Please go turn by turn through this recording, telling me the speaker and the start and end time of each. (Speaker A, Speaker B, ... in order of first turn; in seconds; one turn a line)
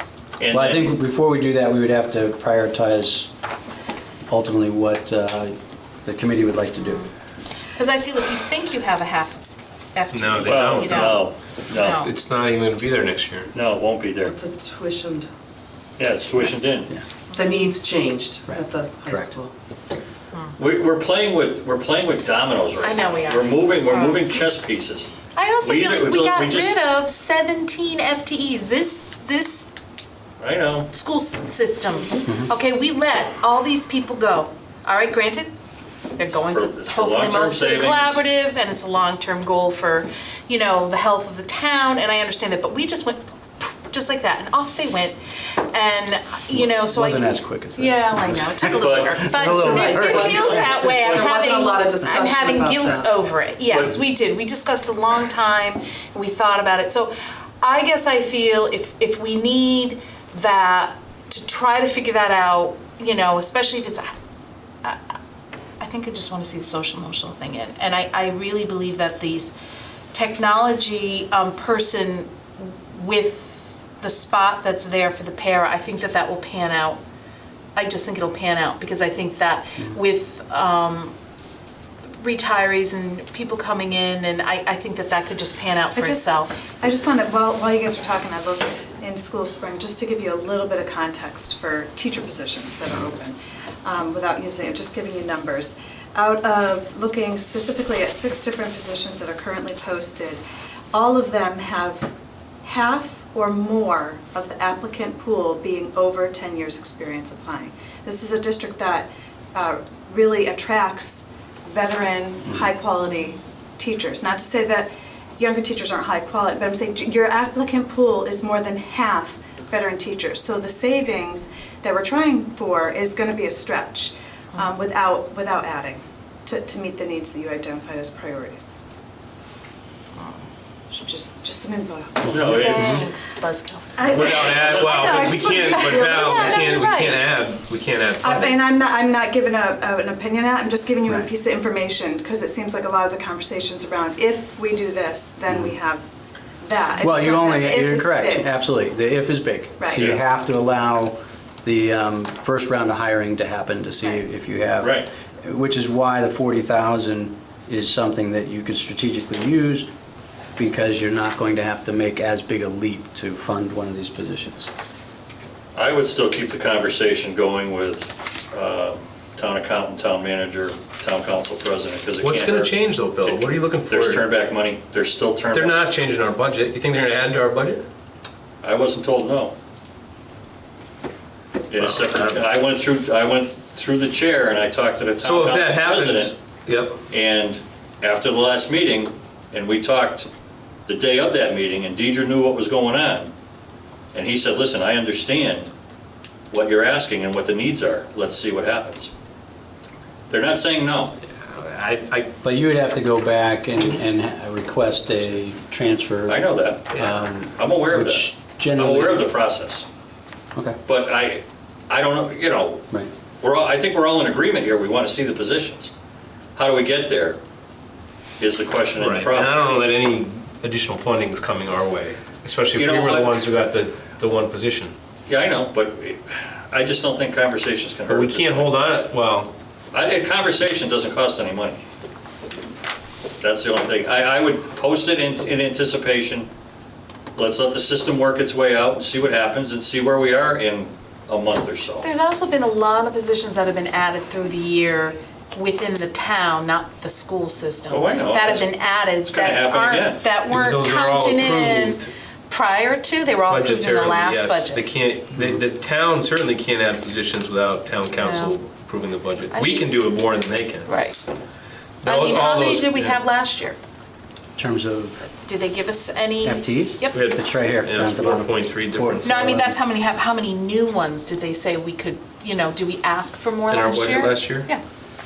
Speaker A: 0.4-1.0
Speaker B: 0.5-3.3
Speaker B: 4.3-7.1
Speaker C: 6.8-7.1
Speaker C: 7.8-9.4
Speaker C: 9.9-12.1
Speaker D: 10.1-11.2
Speaker A: 10.4-12.0
Speaker D: 11.9-13.5
Speaker A: 13.5-14.4
Speaker E: 14.2-15.3
Speaker A: 16.0-16.9
Speaker C: 17.3-17.6
Speaker E: 17.3-19.5
Speaker B: 18.4-19.3
Speaker A: 20.6-26.7
Speaker C: 22.8-24.4
Speaker C: 25.3-29.7
Speaker A: 30.4-30.9
Speaker C: 30.9-35.5
Speaker C: 36.2-45.2
Speaker A: 36.4-38.2
Speaker C: 45.7-64.1
Speaker B: 46.5-51.2
Speaker A: 48.8-49.3
Speaker E: 49.6-53.1
Speaker A: 50.0-51.3
Speaker A: 53.7-54.0
Speaker C: 65.8-69.5
Speaker C: 70.1-77.0
Speaker C: 77.8-81.1
Speaker C: 82.2-86.7
Speaker F: 85.9-100.4
Speaker F: 100.9-102.1
Speaker F: 102.6-128.8
Speaker F: 130.9-132.5
Speaker B: 132.2-133.1
Speaker A: 132.3-133.1
Speaker C: 132.5-134.1
Speaker F: 134.0-136.7
Speaker D: 134.1-138.6
Speaker A: 134.2-135.3
Speaker C: 135.7-137.2
Speaker F: 138.2-146.0
Speaker B: 145.5-145.8
Speaker F: 146.6-148.5
Speaker B: 147.0-159.9
Speaker F: 149.8-150.1
Speaker A: 154.8-155.1
Speaker B: 160.6-164.7
Speaker A: 165.8-175.8
Speaker D: 172.2-174.2
Speaker D: 175.5-177.8
Speaker A: 178.6-179.5
Speaker A: 181.7-186.3
Speaker D: 181.9-182.4
Speaker D: 185.2-187.0
Speaker A: 187.1-190.3
Speaker A: 190.9-193.3
Speaker A: 194.1-195.7
Speaker A: 196.5-199.1
Speaker A: 200.3-201.1
Speaker D: 201.4-202.3
Speaker B: 202.4-209.2
Speaker A: 206.3-209.8
Speaker A: 210.9-212.8
Speaker A: 213.4-215.9
Speaker A: 216.6-217.4
Speaker A: 218.4-219.6
Speaker D: 219.0-224.9
Speaker A: 222.7-223.4
Speaker A: 225.3-228.7
Speaker D: 228.1-229.5
Speaker A: 229.9-231.8
Speaker A: 233.4-236.5
Speaker A: 237.4-242.1
Speaker C: 242.0-254.8
Speaker A: 247.9-248.7
Speaker A: 249.2-250.2
Speaker D: 250.5-252.1
Speaker D: 253.5-261.0
Speaker C: 258.2-258.6
Speaker C: 259.5-260.0
Speaker C: 260.9-261.2
Speaker D: 262.0-263.2
Speaker C: 262.1-263.8
Speaker B: 264.6-265.2
Speaker C: 265.4-267.3
Speaker B: 266.4-269.8
Speaker D: 267.1-269.6
Speaker C: 269.2-274.8
Speaker D: 273.7-274.7